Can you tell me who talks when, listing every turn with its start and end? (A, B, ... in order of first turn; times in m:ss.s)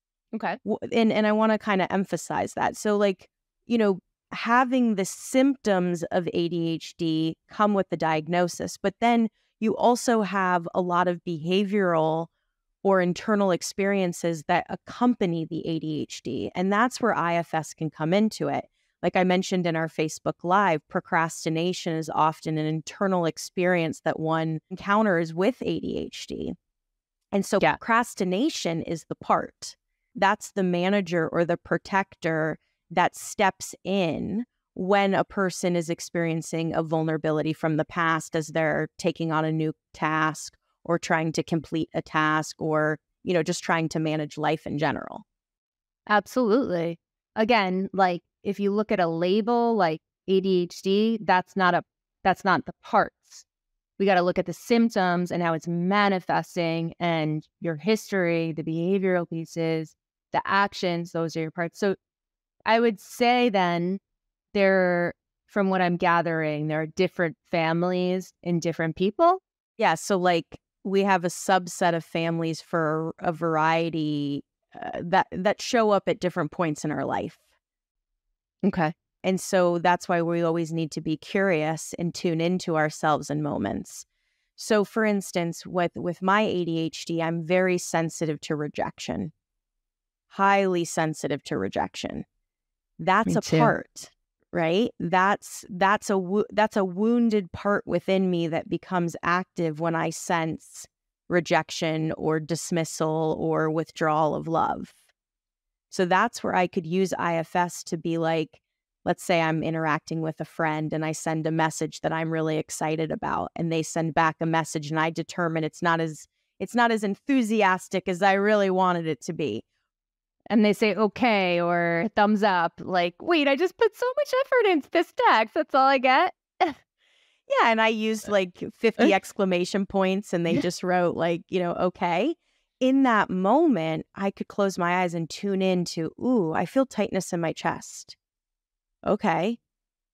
0:00.3-0:00.6 A
0:00.6-0:12.3 B
0:12.8-0:26.6 B
0:27.3-0:45.2 B
0:46.1-0:53.4 A
0:54.0-1:02.0 A
1:02.6-1:04.0 A
1:04.5-1:09.4 A
1:09.8-1:17.4 B
1:18.6-1:18.9 A
1:19.2-1:24.0 B
1:24.6-1:29.3 B
1:30.3-1:32.2 B
1:33.0-1:45.0 B
1:33.2-1:33.7 A
1:45.9-1:59.6 B
2:00.5-2:06.8 A
2:07.5-2:18.2 B
2:19.0-2:19.6 B